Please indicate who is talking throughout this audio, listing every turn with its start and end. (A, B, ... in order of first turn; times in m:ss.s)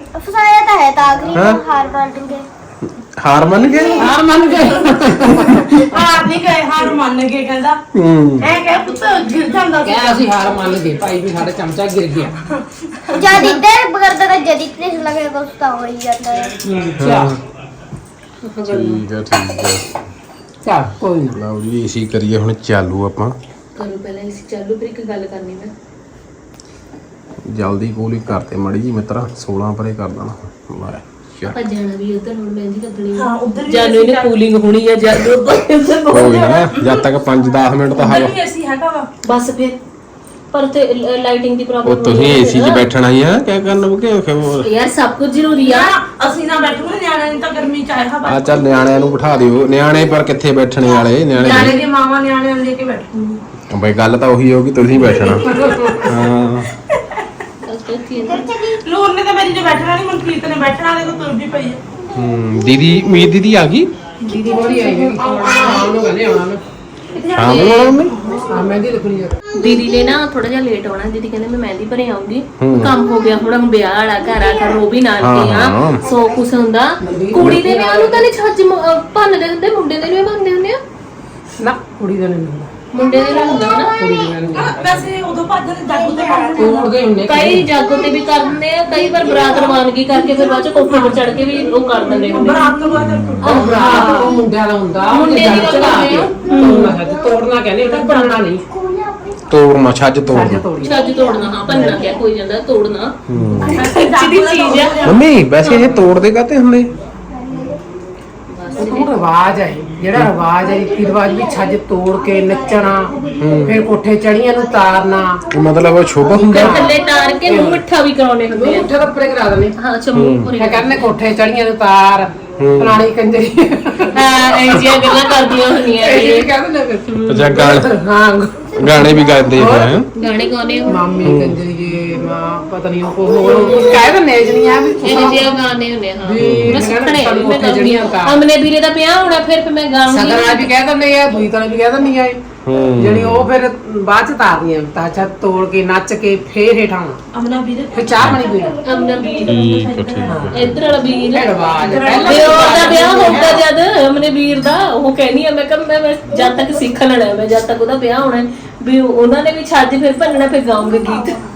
0:00.1-0:02.5 A
0:01.3-0:01.6 B
0:03.0-0:04.0 B
0:03.9-0:05.9 C
0:04.5-0:07.8 D
0:07.9-0:08.5 B
0:08.4-0:10.7 D
0:09.8-0:12.3 C
0:13.1-0:16.5 A
0:16.6-0:17.3 C
0:17.0-0:17.4 B
0:18.4-0:19.0 E
0:18.6-0:19.8 B
0:20.6-0:21.4 C
0:21.3-0:23.4 B
0:23.8-0:25.7 E
0:27.5-0:31.6 B
0:31.5-0:36.4 E
0:33.1-0:34.3 D
0:36.1-0:37.1 D
0:36.1-0:38.4 B
0:37.9-0:39.1 D
0:39.2-0:39.8 E
0:40.5-0:42.8 E
0:41.8-0:44.7 B
0:44.6-0:45.9 E
0:45.6-0:48.9 D
0:48.2-0:51.8 B
0:50.8-0:53.4 D
0:51.4-0:51.8 E
0:53.7-0:55.5 B
0:55.4-0:56.1 C
0:56.0-0:56.7 B
0:57.7-0:58.5 E
0:58.2-0:58.8 A
0:58.8-1:01.8 D
1:02.1-1:03.9 B
1:04.2-1:06.6 C
1:04.6-1:06.0 D
1:07.1-1:08.5 D
1:07.3-1:08.1 B
1:08.5-1:09.4 C
1:09.6-1:20.8 E
1:12.6-1:12.9 B
1:15.2-1:16.0 B
1:17.0-1:18.2 C
1:21.6-1:22.7 C
1:22.9-1:23.9 E
1:23.3-1:23.8 A
1:23.9-1:25.1 C
1:24.5-1:26.9 D
1:26.1-1:26.4 A
1:26.6-1:27.7 C
1:27.2-1:32.7 E
1:30.9-1:31.2 D
1:32.1-1:34.3 D
1:33.0-1:33.4 B
1:33.4-1:38.6 C
1:33.4-1:34.4 E
1:35.1-1:37.0 E
1:37.8-1:38.4 D
1:38.9-1:39.2 A
1:39.5-1:40.6 B
1:40.3-1:41.0 C
1:40.8-1:43.1 E
1:41.7-1:42.0 C
1:43.3-1:43.8 B
1:43.6-1:45.0 E
1:43.6-1:45.3 D
1:45.0-1:46.9 B
1:48.5-1:49.1 E
1:48.8-1:55.4 C
1:53.4-1:53.8 B
1:55.5-1:56.9 B
1:56.5-1:57.8 C
1:56.5-1:58.9 E
1:58.5-1:59.7 C
1:59.8-2:01.1 E
2:00.1-2:00.5 B
2:00.6-2:05.2 C
2:02.6-2:03.0 B
2:04.1-2:06.5 E
2:06.0-2:10.0 C
2:07.1-2:07.5 E
2:07.3-2:07.9 B
2:08.8-2:10.1 B
2:10.2-2:11.1 E
2:10.9-2:15.5 C
2:11.2-2:11.6 B
2:13.4-2:14.1 E
2:15.0-2:20.7 E
2:16.2-2:18.4 C
2:16.4-2:16.8 B
2:20.1-2:22.4 C
2:22.6-2:23.5 B
2:23.0-2:27.2 C
2:27.3-2:30.4 D
2:27.9-2:28.8 C
2:28.8-2:29.5 E
2:29.4-2:30.8 B
2:30.2-2:30.6 C
2:30.5-2:31.5 E
2:31.3-2:33.6 C
2:31.8-2:33.6 D
2:32.1-2:41.4 E